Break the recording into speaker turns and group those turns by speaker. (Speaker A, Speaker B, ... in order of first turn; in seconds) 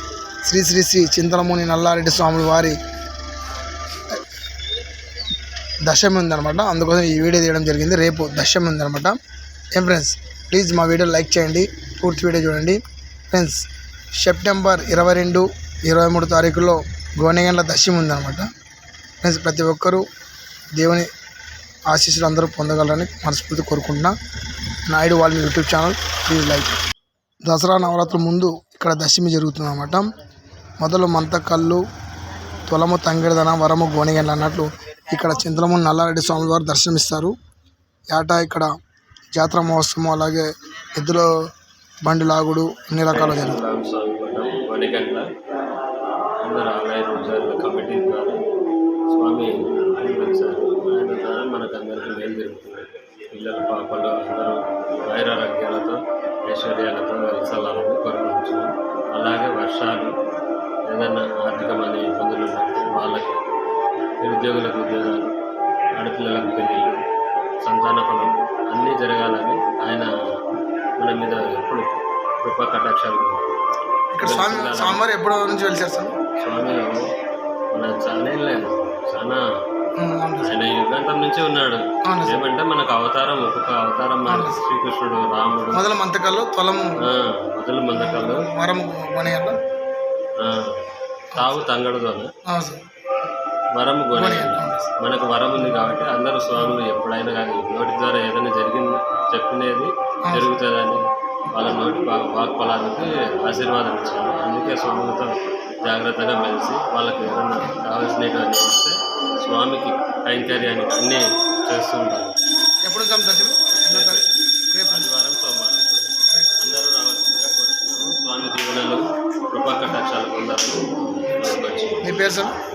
Speaker A: 0.4-2.8, 5.8-9.2, 9.7-18.5, 19.2-20.0, 20.7-21.1, 21.9-24.1, 24.9-26.7, 27.4-30.2, 30.8-31.8, 32.6-37.3, 38.1-38.7, 39.3-41.3, 42.0-43.6, 74.1-76.1, 80.0-80.5, 82.0-82.4, 84.3-84.6, 85.7-87.0, 87.9-89.6, 91.3-91.6, 92.5-92.8, 94.1-94.9, 112.9-115.1, 122.0-122.5
Speaker B: 43.1-45.3, 46.4-48.4, 49.1-60.1, 60.9-63.4, 64.2-65.3, 66.0-67.0, 67.6-70.1, 71.0-73.5, 74.2-75.0, 76.4-77.1, 77.7-79.4, 80.4-85.9, 87.0-88.5, 90.4-90.8, 91.3-92.3, 93.7-105.3, 105.8-112.3, 113.9-114.3, 114.9-122.0